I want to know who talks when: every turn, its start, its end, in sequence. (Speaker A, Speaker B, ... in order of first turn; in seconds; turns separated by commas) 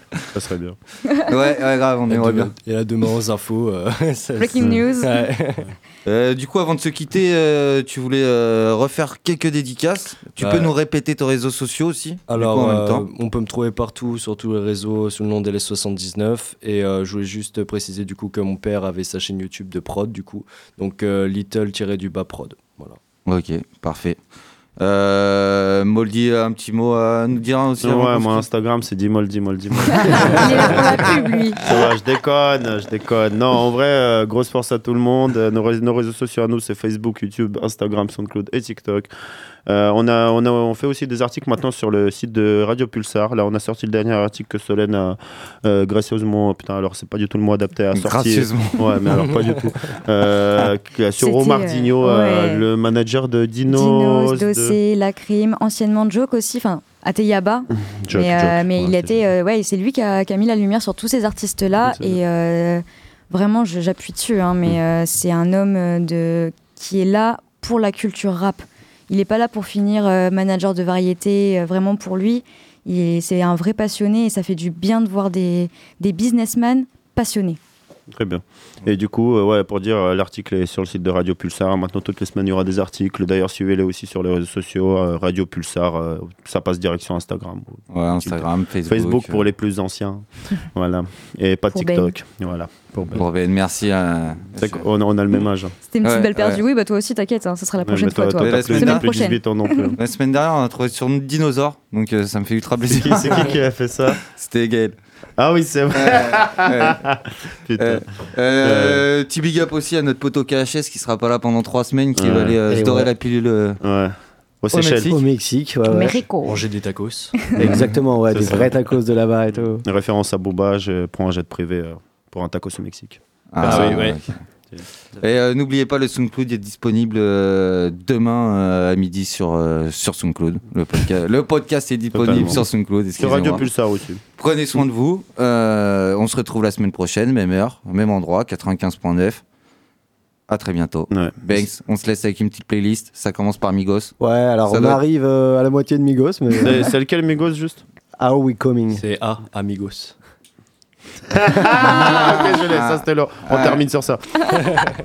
Speaker A: 0.3-0.8, Speaker B: 1.3-2.5, Speaker C: 2.1-5.7, Speaker D: 4.4-5.3, Speaker B: 6.0-13.1, Speaker C: 10.4-10.7, Speaker C: 12.3-23.0, Speaker B: 23.3-24.2, Speaker B: 24.8-28.4, Speaker A: 27.8-39.1, Speaker D: 30.1-31.8, Speaker A: 39.7-54.8, Speaker B: 47.9-49.2, Speaker D: 51.2-52.6, Speaker D: 53.7-77.6, Speaker A: 57.8-59.2, Speaker A: 61.8-62.2, Speaker A: 78.1-93.3, Speaker B: 87.9-89.5, Speaker D: 91.7-92.2, Speaker B: 93.1-94.9, Speaker A: 94.5-95.8, Speaker D: 95.9-99.9, Speaker B: 96.0-96.6, Speaker A: 97.8-100.0, Speaker B: 98.4-99.3, Speaker B: 100.0-103.6, Speaker A: 102.9-104.2, Speaker B: 104.2-105.0, Speaker A: 105.4-109.0, Speaker B: 106.0-107.0, Speaker B: 107.8-113.8, Speaker A: 112.2-112.6, Speaker E: 112.7-113.1, Speaker A: 113.8-115.2, Speaker E: 114.7-116.2, Speaker D: 115.9-116.6, Speaker C: 116.4-117.5, Speaker A: 117.6-118.8, Speaker E: 117.6-119.8, Speaker A: 119.5-124.0, Speaker B: 123.5-124.4, Speaker C: 123.6-124.2, Speaker B: 125.2-133.7, Speaker A: 132.1-134.2, Speaker B: 134.4-139.4, Speaker B: 140.5-144.2, Speaker A: 141.1-141.4, Speaker E: 144.2-146.9, Speaker B: 144.7-145.0, Speaker A: 146.6-147.8, Speaker E: 148.2-149.0, Speaker C: 148.9-150.2, Speaker A: 151.3-154.3, Speaker B: 152.0-153.8